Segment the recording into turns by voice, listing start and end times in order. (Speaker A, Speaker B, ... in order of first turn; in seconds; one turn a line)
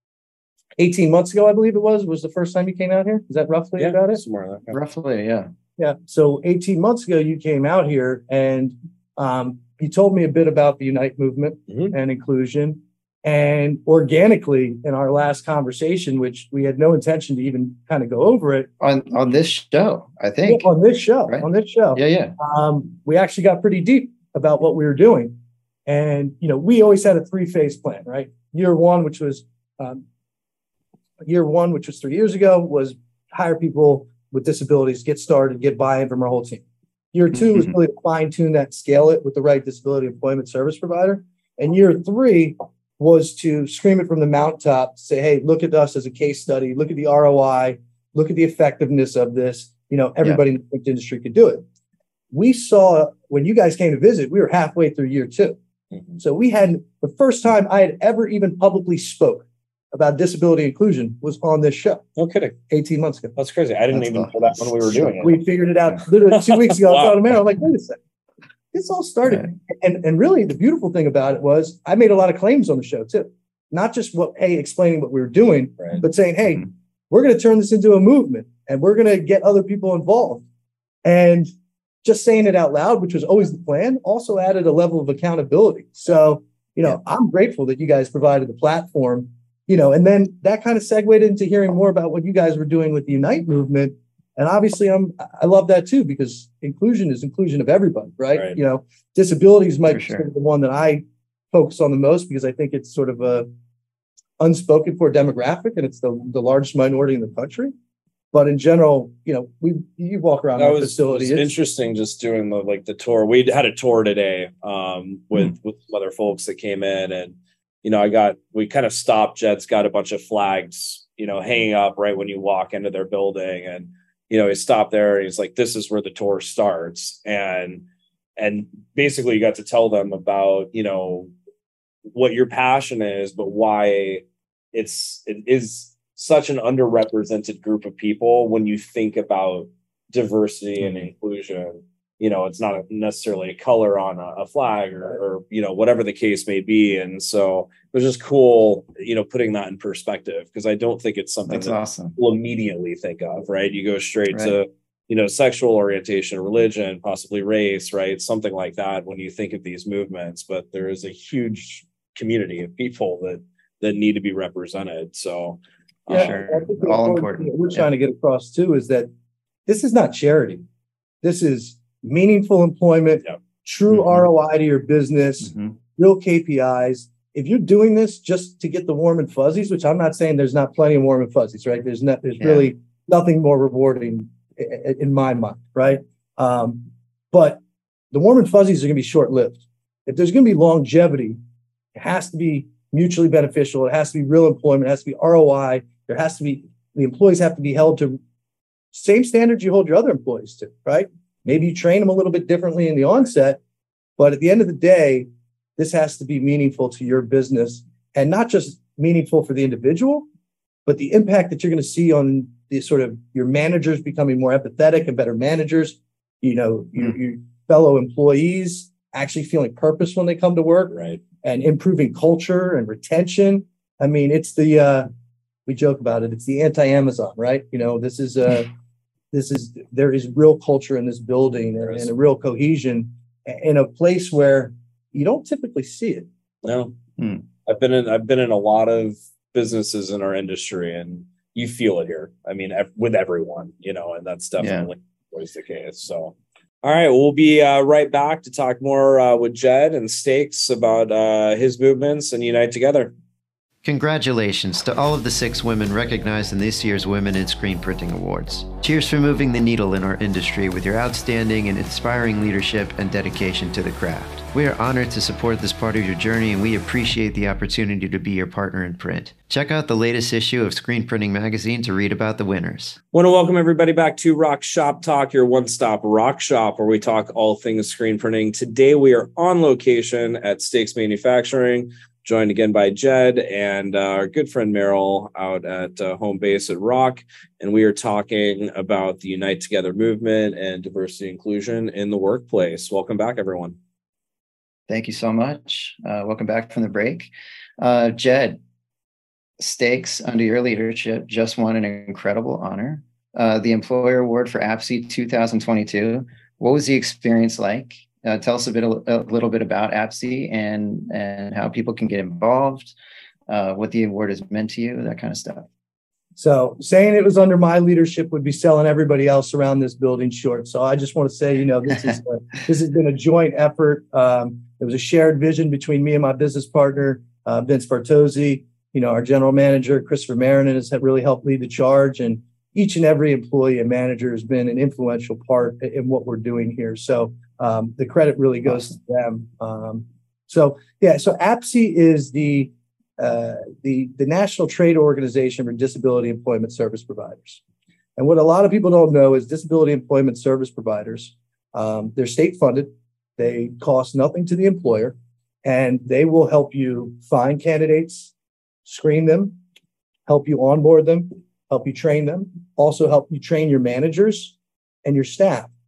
Speaker A: 0.8-4.2
Speaker B: 3.8-4.8
Speaker C: 4.7-5.5
Speaker A: 5.8-18.7
Speaker B: 11.7-11.9
Speaker C: 18.8-20.7
Speaker A: 20.4-25.3
Speaker C: 21.3-22.3
Speaker A: 25.9-30.0
Speaker A: 31.2-51.6
Speaker A: 52.3-55.6
Speaker A: 56.2-62.0
Speaker B: 62.2-62.6
Speaker A: 62.7-63.4
Speaker B: 63.4-65.4
Speaker C: 63.9-65.3
Speaker A: 65.2-68.0
Speaker B: 66.2-67.2
Speaker A: 68.7-80.4
Speaker A: 81.0-81.5
Speaker A: 82.0-103.5
Speaker C: 99.9-100.2
Speaker A: 104.4-107.7
Speaker A: 108.3-111.5
Speaker B: 110.6-127.8
Speaker B: 128.4-131.3
Speaker B: 132.1-166.3
Speaker C: 151.5-152.2
Speaker C: 154.3-154.5
Speaker C: 166.1-167.9
Speaker A: 166.1-169.1
Speaker A: 169.7-170.6
Speaker A: 171.2-186.8
Speaker C: 173.9-174.2
Speaker C: 175.4-175.7
Speaker C: 182.4-182.7
Speaker A: 187.3-187.6
Speaker A: 188.1-191.4
Speaker A: 191.9-198.2
Speaker A: 198.9-203.6
Speaker A: 204.2-210.2
Speaker A: 210.8-225.1
Speaker B: 220.9-221.2
Speaker A: 225.7-228.7
Speaker A: 229.3-236.3
Speaker B: 236.6-236.9
Speaker C: 237.2-237.4
Speaker B: 237.7-253.1
Speaker C: 244.6-244.9
Speaker D: 253.8-273.0
Speaker B: 273.1-293.8
Speaker C: 294.9-298.6
Speaker C: 299.6-312.9
Speaker C: 313.5-315.7
Speaker A: 316.4-347.6
Speaker A: 348.2-358.3
Speaker A: 358.9-359.6
Speaker A: 360.3-365.7